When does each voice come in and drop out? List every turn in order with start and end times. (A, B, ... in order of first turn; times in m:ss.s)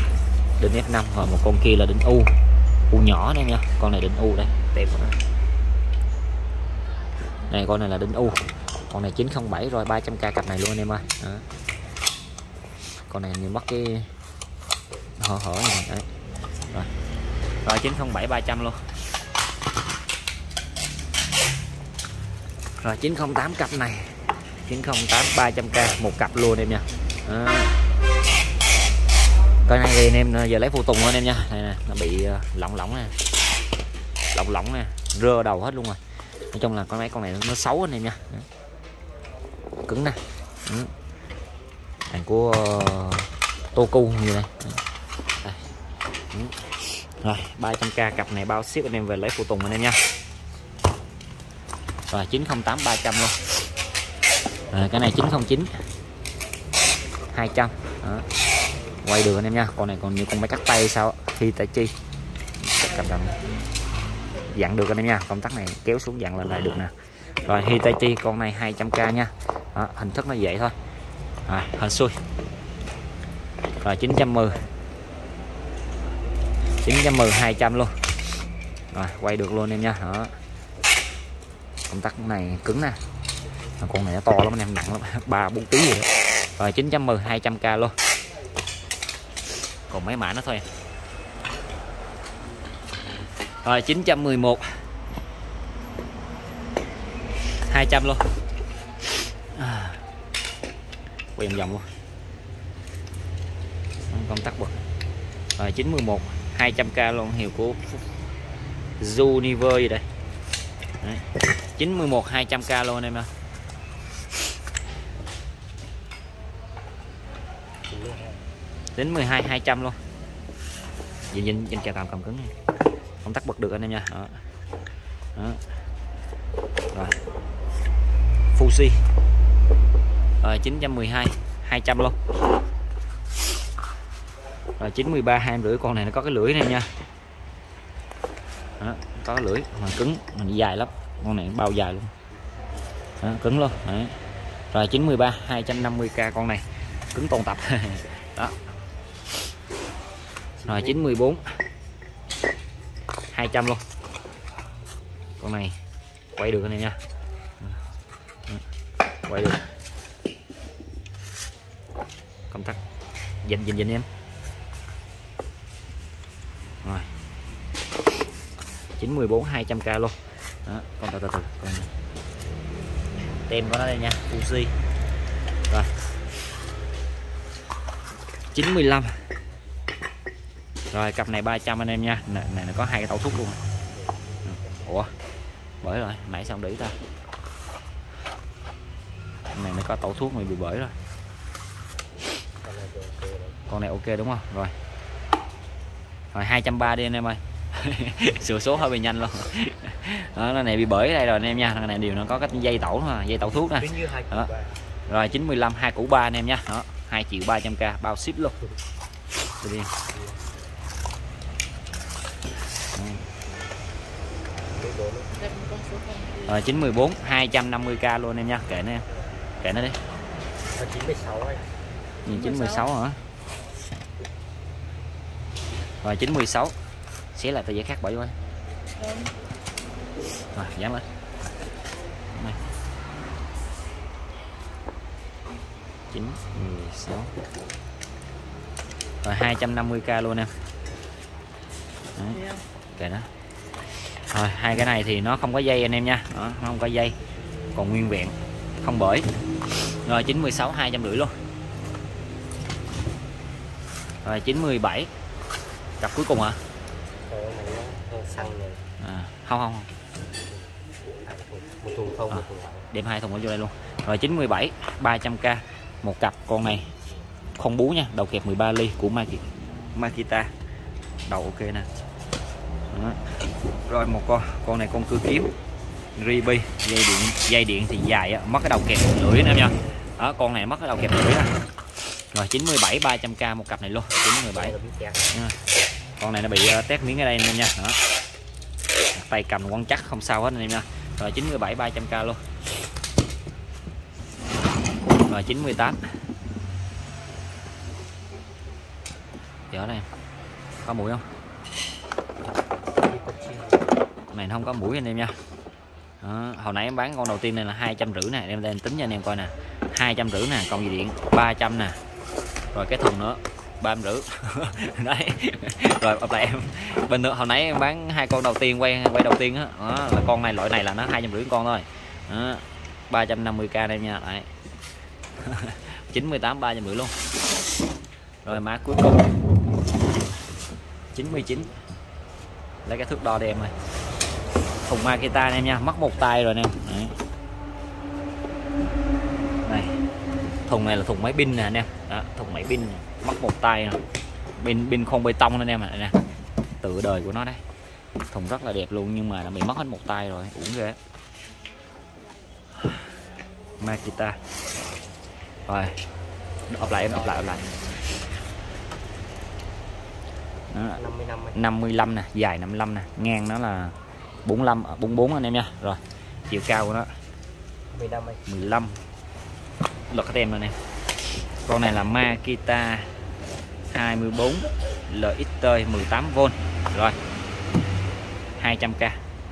0:00.6-0:02.3 A
0:02.9-0:05.2 A
0:07.5-0:11.4 A
0:13.1-0:14.1 A
0:15.2-0:16.1 A
0:17.6-0:18.9 A
0:22.8-0:27.8 A
0:29.6-0:33.1 A
0:34.3-0:36.0 A
0:36.5-0:38.5 A
0:39.9-0:40.9 A
0:42.1-0:44.8 A
0:46.3-0:50.0 A
0:52.1-0:53.4 A
0:54.7-0:55.7 A
0:57.3-0:58.3 A
0:59.0-1:01.9 A
1:02.7-1:03.3 A
1:04.5-1:10.8 A
1:11.4-1:12.2 A
1:13.8-1:14.6 A
1:16.8-1:18.0 A
1:18.9-1:20.4 A
1:21.9-1:23.0 A
1:23.8-1:27.9 A
1:29.9-1:30.6 A
1:33.6-1:34.8 A
1:37.6-1:38.3 A
1:39.5-1:40.0 A
1:41.4-1:41.9 A
1:44.1-1:44.8 A
1:45.6-1:48.0 A
1:49.0-1:50.0 A
1:51.0-1:53.3 A
1:57.9-1:58.4 B
1:58.9-2:00.0 A
2:01.3-2:02.5 A
2:03.2-2:04.4 A
2:05.4-2:05.6 A
2:08.5-2:09.0 A
2:10.4-2:12.2 A
2:14.8-2:16.9 A
2:18.8-2:22.1 A
2:23.2-2:24.2 A
2:24.7-2:28.6 A
2:30.6-2:31.1 B
2:30.6-2:31.4 A
2:33.3-2:33.8 A
2:35.4-2:35.8 A
2:36.3-2:37.0 A
2:39.3-2:39.6 A
2:42.5-2:42.8 A
2:43.4-2:44.1 A
2:46.8-2:47.1 A
2:49.0-2:51.9 A
2:53.5-2:54.8 A
2:58.5-2:59.3 A
3:00.9-3:03.6 A
3:03.9-3:04.8 B
3:04.4-3:05.1 A
3:05.8-3:07.0 A
3:09.5-3:10.9 A
3:12.6-3:13.6 B
3:13.7-3:14.7 A
3:16.3-3:24.5 A
3:23.7-3:24.8 B
3:25.1-3:28.6 A
3:29.6-3:29.9 A
3:30.1-3:30.4 B
3:32.9-3:33.3 A
3:34.6-3:35.3 B
3:35.3-3:36.6 C
3:36.4-3:39.0 A
3:39.6-3:40.0 A
3:40.7-3:41.8 B
3:42.3-3:43.2 A
3:42.3-3:42.9 C
3:46.0-3:46.8 A
3:47.3-3:48.4 A
3:48.9-3:49.4 C
3:50.5-3:51.0 A
3:52.3-3:52.6 A
3:56.1-3:57.3 A
3:59.2-4:00.5 A
4:02.1-4:02.4 A
4:02.3-4:02.6 C
4:02.9-4:03.3 A
4:04.3-4:07.2 A
4:07.7-4:11.3 A
4:14.2-4:15.1 A
4:16.0-4:16.6 A
4:17.2-4:18.8 B
4:19.0-4:19.9 A
4:20.5-4:22.9 B
4:22.3-4:26.9 A
4:27.6-4:30.5 A
4:31.3-4:31.9 A
4:32.9-4:35.5 A
4:36.2-4:44.7 A
4:44.5-4:45.3 B
4:45.3-4:45.6 A
4:46.2-4:48.0 A
4:49.1-4:52.4 A
4:55.3-4:56.0 A
4:59.7-5:00.1 A
5:00.8-5:01.2 A
5:03.0-5:04.0 B
5:04.3-5:05.4 A
5:06.2-5:12.0 A
5:12.7-5:24.5 A
5:25.4-5:27.2 A
5:28.4-5:29.3 A
5:31.1-5:31.7 A
5:31.3-5:31.8 B
5:32.8-5:33.7 A
5:34.8-5:37.2 A
5:39.6-5:40.0 A
5:40.7-5:44.0 A
5:44.6-5:46.2 A
5:46.8-5:47.6 A
5:48.3-5:51.0 A
5:53.8-5:54.4 A
5:55.7-5:56.0 A
5:56.7-5:57.7 A
5:56.9-5:57.6 B
6:00.7-6:01.0 A
6:00.9-6:01.6 B
6:01.5-6:07.1 A
6:07.9-6:08.5 B
6:08.4-6:09.0 A
6:10.1-6:10.8 A
6:11.6-6:13.1 A
6:13.9-6:17.2 A
6:18.6-6:19.2 A